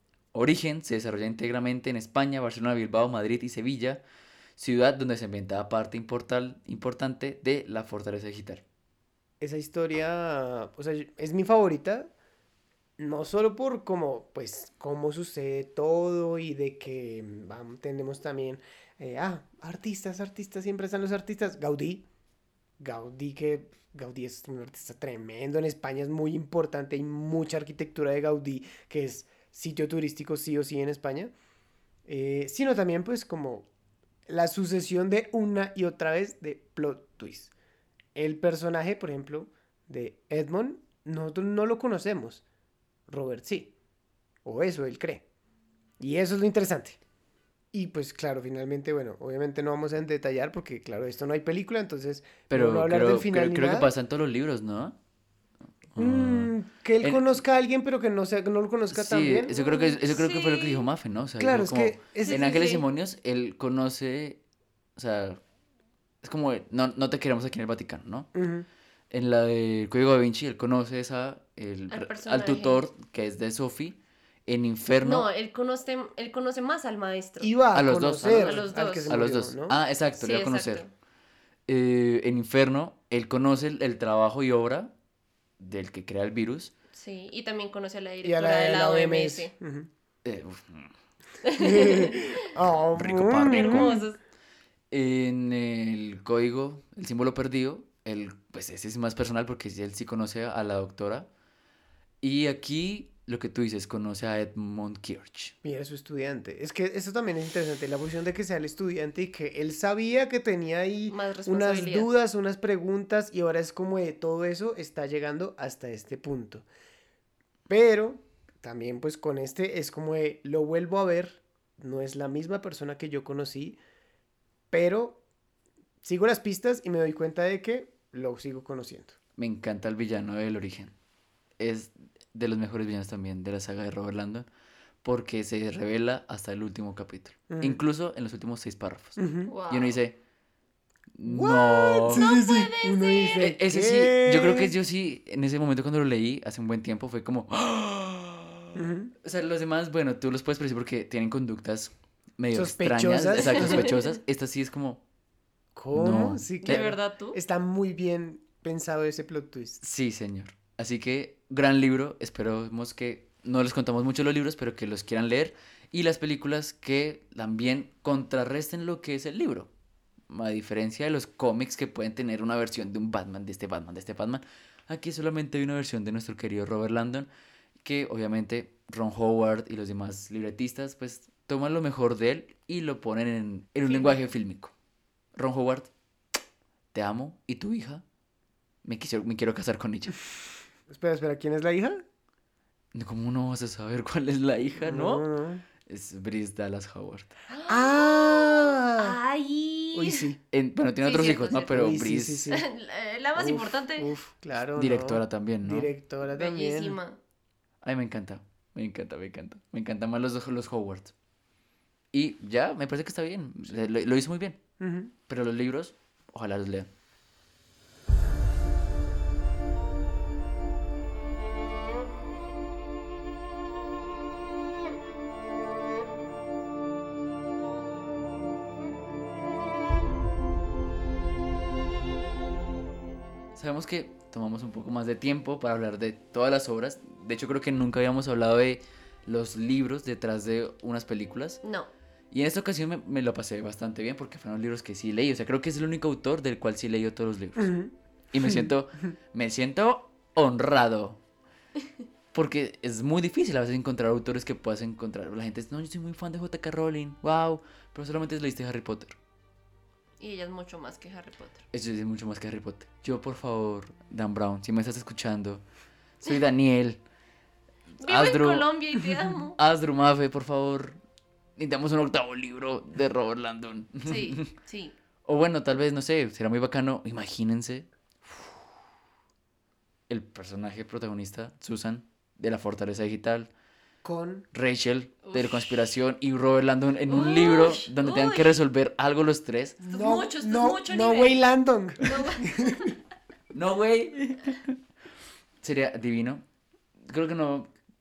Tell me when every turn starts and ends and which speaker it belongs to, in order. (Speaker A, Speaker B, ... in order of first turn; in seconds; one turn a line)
Speaker A: 0.3-4.0
Speaker A: 4.6-8.6
Speaker B: 9.4-12.1
Speaker B: 13.0-22.0
Speaker B: 22.8-31.3
Speaker B: 32.0-33.7
Speaker B: 34.3-37.5
Speaker B: 38.1-42.4
Speaker B: 43.1-43.7
Speaker B: 44.4-45.2
Speaker B: 46.0-47.0
Speaker B: 47.7-53.9
Speaker A: 52.5-55.0
Speaker A: 55.9-57.4
Speaker B: 56.0-59.8
Speaker A: 58.9-64.4
Speaker C: 59.7-60.9
Speaker B: 61.4-62.6
Speaker C: 62.3-62.8
Speaker A: 65.0-65.4
Speaker A: 66.2-68.3
Speaker B: 68.3-68.7
Speaker A: 69.1-75.3
Speaker C: 71.9-72.8
Speaker C: 75.0-77.5
Speaker B: 77.4-79.8
Speaker A: 77.7-80.8
Speaker C: 78.3-79.1
Speaker C: 80.2-80.9
Speaker A: 81.7-84.9
Speaker A: 85.6-86.7
Speaker C: 86.9-89.5
Speaker B: 88.2-89.9
Speaker A: 90.2-90.9
Speaker C: 91.4-92.2
Speaker B: 91.6-94.0
Speaker A: 92.9-94.0
Speaker C: 93.5-94.2
Speaker A: 94.9-101.3
Speaker A: 102.2-105.5
Speaker B: 105.6-116.7
Speaker C: 111.1-112.1
Speaker B: 117.7-123.8
Speaker B: 124.7-125.2
Speaker B: 126.0-129.2
Speaker A: 129.4-130.9
Speaker A: 131.6-134.5
Speaker A: 135.0-140.2
Speaker B: 137.5-137.8
Speaker B: 139.2-139.5
Speaker C: 139.5-140.0
Speaker A: 141.2-142.3
Speaker B: 141.2-144.7
Speaker C: 142.1-143.4
Speaker A: 143.4-155.0
Speaker B: 148.7-149.1
Speaker B: 152.5-153.9
Speaker C: 153.4-154.1
Speaker B: 155.8-159.8
Speaker A: 155.9-156.8
Speaker C: 156.6-157.4
Speaker A: 159.8-169.7
Speaker A: 170.3-177.3
Speaker A: 177.8-184.7
Speaker C: 183.9-184.2
Speaker A: 185.3-185.9
Speaker A: 186.9-188.0
Speaker A: 188.8-190.2
Speaker B: 190.9-192.0
Speaker A: 192.9-195.3
Speaker B: 194.8-195.6
Speaker A: 195.8-197.3
Speaker C: 197.5-200.2
Speaker B: 197.7-199.2
Speaker B: 199.9-200.4
Speaker A: 200.5-202.4
Speaker C: 201.0-201.7
Speaker B: 201.7-202.7
Speaker C: 202.5-204.1
Speaker B: 203.3-207.0
Speaker A: 204.8-205.9
Speaker C: 206.3-207.2
Speaker A: 207.8-211.1
Speaker A: 212.1-214.6
Speaker B: 214.8-215.1
Speaker A: 215.3-216.9
Speaker A: 233.5-241.6
Speaker C: 241.6-241.9
Speaker A: 242.3-247.7
Speaker B: 247.6-248.7
Speaker A: 248.3-251.2
Speaker A: 252.3-259.1
Speaker C: 260.2-261.6
Speaker A: 261.7-265.6
Speaker A: 266.2-267.0
Speaker C: 268.0-269.6
Speaker A: 268.0-271.0
Speaker A: 271.6-274.5
Speaker C: 274.1-274.9
Speaker A: 275.2-278.5
Speaker A: 280.1-283.5
Speaker B: 284.0-284.4
Speaker A: 284.5-289.8
Speaker C: 285.2-285.6
Speaker C: 287.1-288.5
Speaker B: 289.8-292.9
Speaker C: 289.9-291.4
Speaker C: 292.0-292.9
Speaker A: 293.5-294.7
Speaker A: 295.6-296.4
Speaker A: 297.0-297.7